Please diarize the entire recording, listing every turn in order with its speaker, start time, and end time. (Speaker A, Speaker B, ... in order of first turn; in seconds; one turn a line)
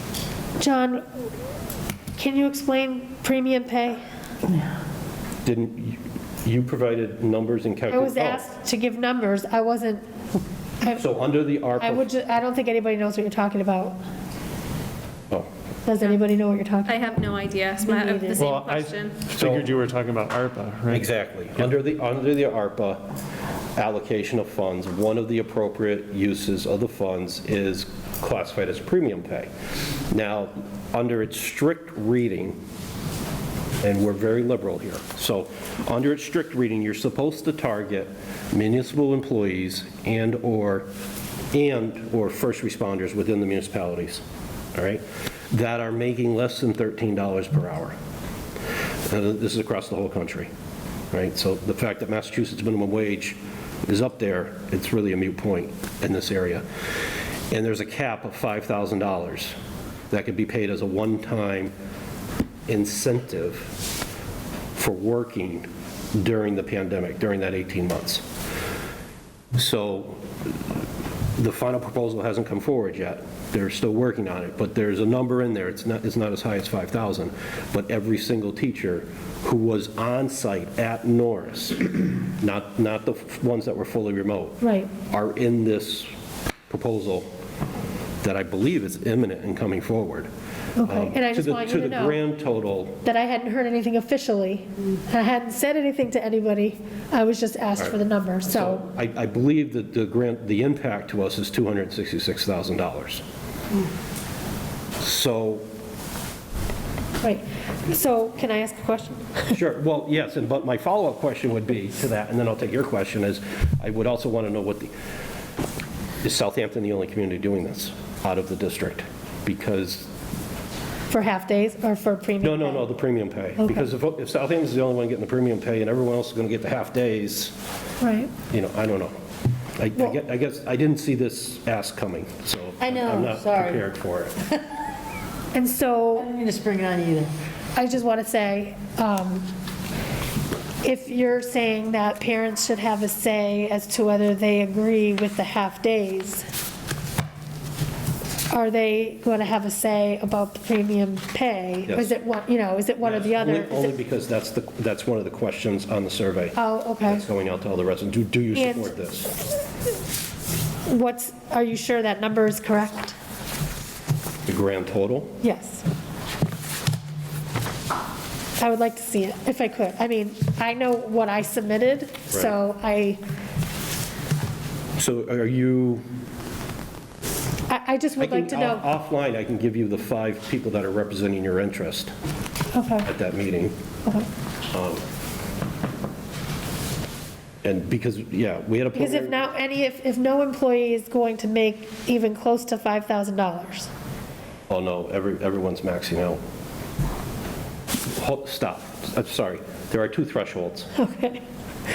Speaker A: 0.6-1.0
Speaker A: 2.1-4.0
Speaker B: 5.4-8.4
Speaker A: 7.9-10.0
Speaker B: 10.9-12.0
Speaker A: 11.8-14.0
Speaker A: 15.8-17.3
Speaker C: 16.9-19.2
Speaker A: 17.8-18.5
Speaker D: 18.4-21.1
Speaker B: 19.4-19.7
Speaker B: 20.9-23.1
Speaker B: 23.8-29.5
Speaker B: 30.1-32.6
Speaker B: 33.8-40.9
Speaker B: 41.5-44.2
Speaker B: 44.7-47.9
Speaker B: 49.1-50.5
Speaker B: 51.1-56.6
Speaker B: 57.5-59.5
Speaker B: 60.1-61.7
Speaker B: 62.7-63.8
Speaker B: 64.7-68.2
Speaker B: 69.5-70.3
Speaker B: 71.4-86.1
Speaker A: 84.6-84.9
Speaker B: 86.7-87.3
Speaker B: 88.2-90.3
Speaker A: 90.8-92.2
Speaker B: 90.8-93.0
Speaker A: 93.0-98.8
Speaker B: 98.5-103.2
Speaker B: 105.0-105.7
Speaker A: 107.2-109.6
Speaker B: 109.5-114.9
Speaker B: 116.2-120.1
Speaker A: 121.1-122.9
Speaker B: 122.4-127.5
Speaker A: 123.6-123.8
Speaker A: 128.0-128.3
Speaker B: 128.5-129.1
Speaker B: 129.8-134.3
Speaker E: 132.8-133.8
Speaker A: 135.5-136.3
Speaker E: 136.2-137.3
Speaker A: 137.8-139.5
Speaker A: 140.8-146.4
Speaker A: 148.5-153.9
Speaker B: 153.0-159.3
Speaker A: 156.5-157.2
Speaker A: 158.5-158.9
Speaker A: 160.9-163.2
Speaker B: 164.5-165.3
Speaker A: 165.4-165.8
Speaker A: 168.6-173.2
Speaker B: 175.0-176.0
Speaker A: 177.7-178.8
Speaker B: 178.2-182.1
Speaker A: 182.7-183.1
Speaker B: 183.0-183.7
Speaker B: 184.7-185.0
Speaker B: 187.6-189.4
Speaker A: 188.9-193.9
Speaker B: 194.7-196.4
Speaker B: 198.1-200.9
Speaker A: 200.9-201.4